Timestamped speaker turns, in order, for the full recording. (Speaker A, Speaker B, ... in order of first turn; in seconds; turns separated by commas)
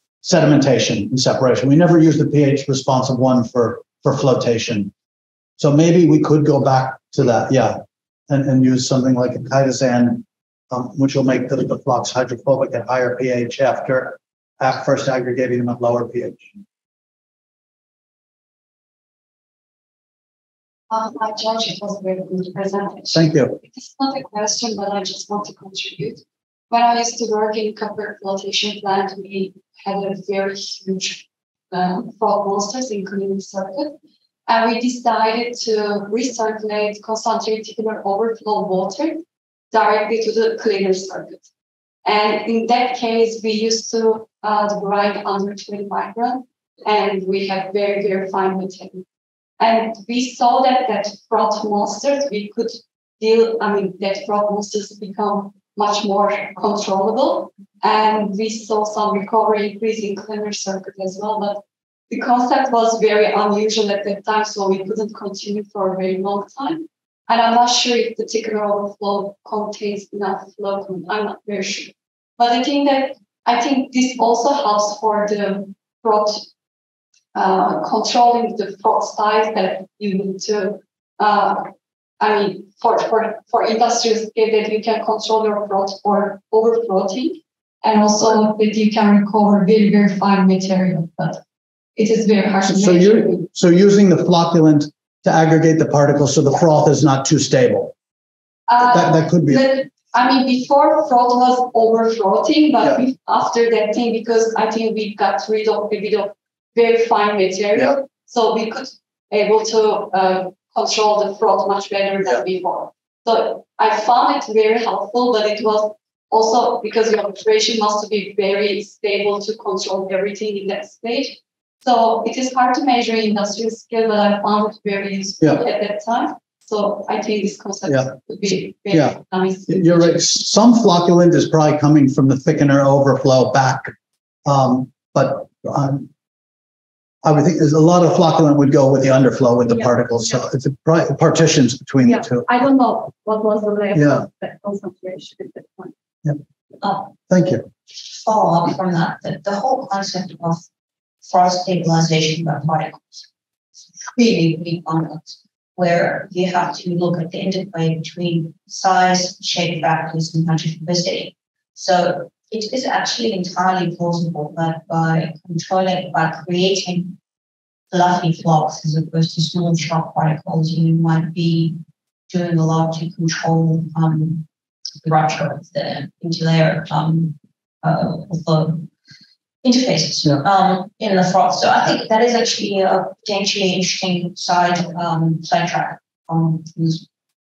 Speaker A: 0.2-4.9, Speaker A: 5.6-16.5, Speaker B: 20.9-33.9, Speaker A: 23.1-23.6, Speaker B: 34.5-41.5, Speaker B: 42.0-49.0, Speaker B: 49.6-76.5, Speaker B: 77.3-91.4, Speaker B: 92.0-93.5, Speaker A: 92.7-97.9, Speaker B: 98.7-130.2, Speaker A: 98.8-99.7, Speaker A: 127.9-128.2, Speaker A: 128.9-133.9, Speaker A: 134.4-136.1, Speaker A: 137.2-142.5, Speaker B: 139.7-140.4, Speaker B: 142.0-145.9, Speaker A: 143.9-144.3, Speaker C: 146.8-147.1, Speaker A: 147.3-147.6, Speaker C: 147.9-150.7, Speaker C: 151.2-153.3, Speaker C: 154.1-167.2, Speaker C: 167.9-174.4, Speaker C: 175.0-178.9, Speaker C: 179.6-187.1